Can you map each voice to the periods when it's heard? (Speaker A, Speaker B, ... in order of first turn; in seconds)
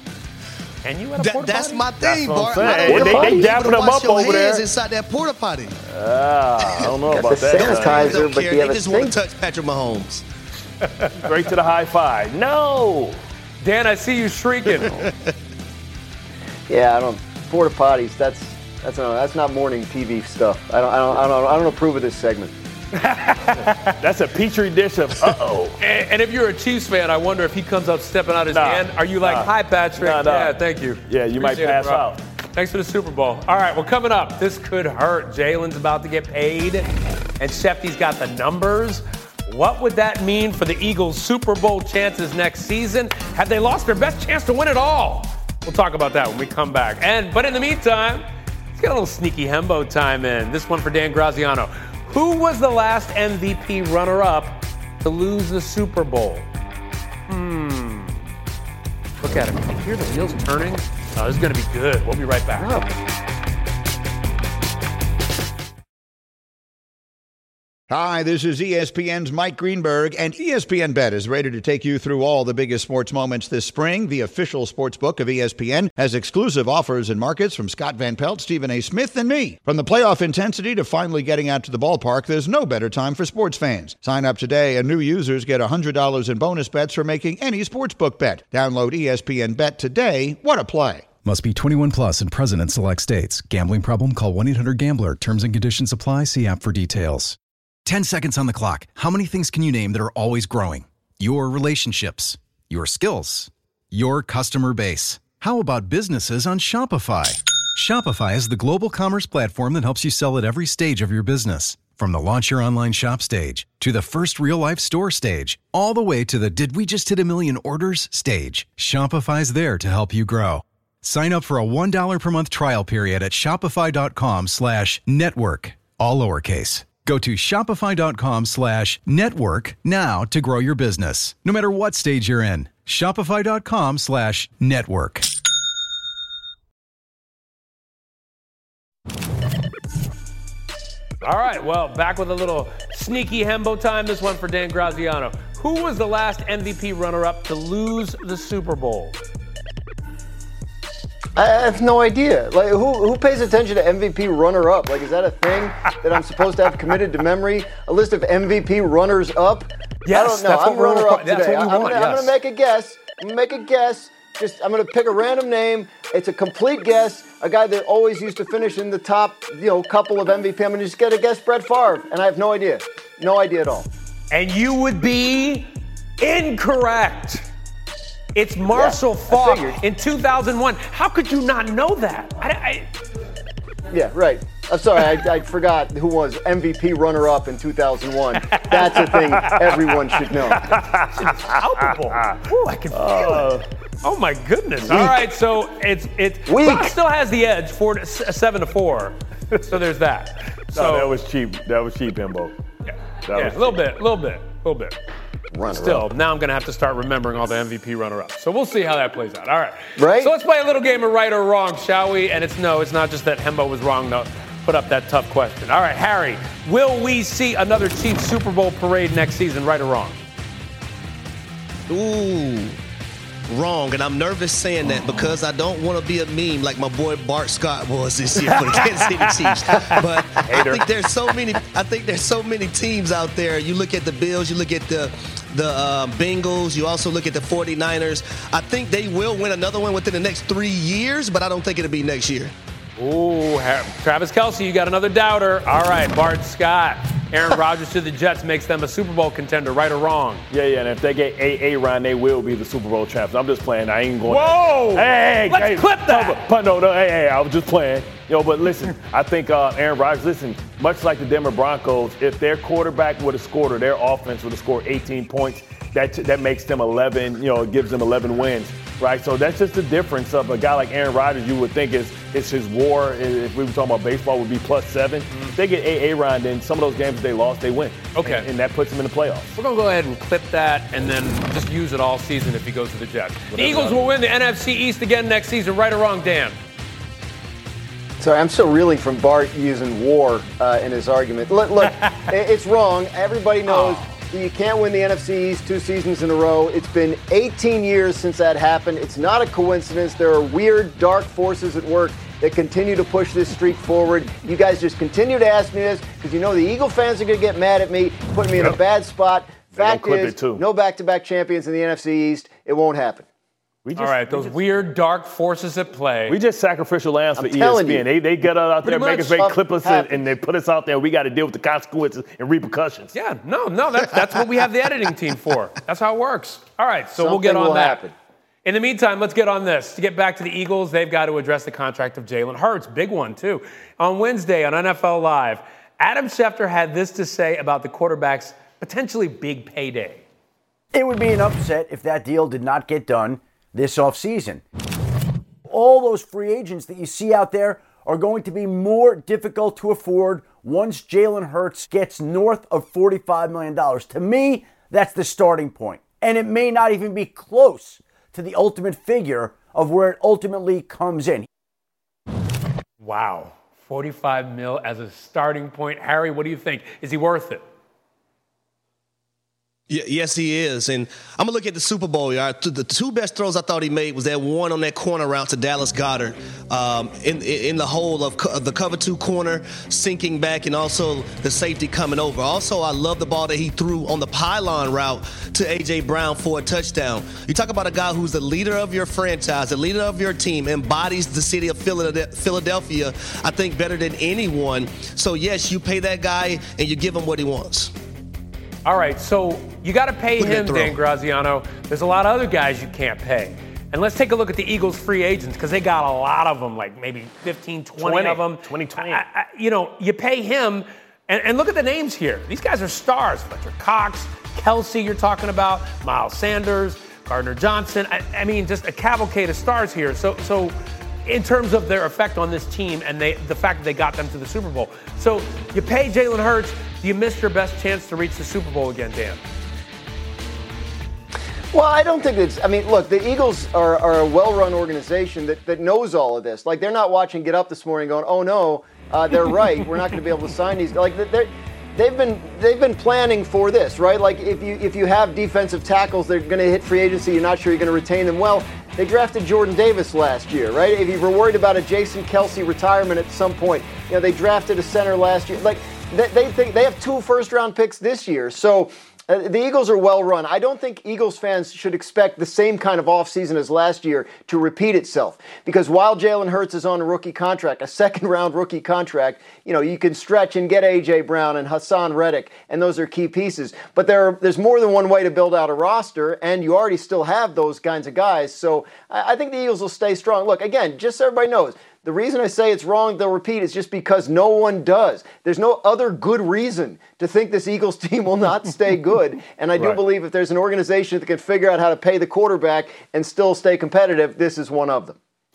Speaker A: 0.8-1.9, 13.6-15.0, 22.9-24.0, 25.8-56.5, 57.3-58.2, 59.2-62.7, 141.2-149.2, 160.1-162.3, 174.3-175.7, 176.2-177.4, 178.3-182.9, 188.5-189.6, 191.1-193.5, 194.0-201.1, 202.9-205.0, 205.7-220.2, 228.5-230.8, 243.0-250.5, 254.3-256.4, 278.2-278.5, 279.6-286.6, 293.7-294.0, 314.0-316.4, 323.1-328.0, 328.6-340.2, 363.0-367.6, 398.9-429.4
Speaker B: 1.2-5.8, 7.5-10.2, 221.9-222.8, 223.5-242.5, 369.9-397.9, 400.4-401.0
Speaker C: 2.0-4.6, 5.9-8.3, 11.2-13.2, 23.9-25.8, 28.5-32.2, 190.7-192.4, 192.9-193.7, 200.7-202.6, 203.3-203.8, 250.5-279.5, 283.5-284.1, 309.7-310.6, 313.9-314.9, 316.3-323.1, 408.0-409.2
Speaker D: 2.9-3.5, 7.1-9.2, 16.7-22.5, 62.6-62.9, 151.4-173.9, 178.7-179.8, 183.9-190.8, 194.8-195.2, 196.5-196.9, 205.5-206.1, 210.0-210.3, 288.2-313.3, 317.4-318.1, 318.8-320.3, 327.2-328.1, 431.7-495.2
Speaker E: 67.9-91.1
Speaker F: 91.2-135.3
Speaker G: 340.9-344.6, 345.7-361.5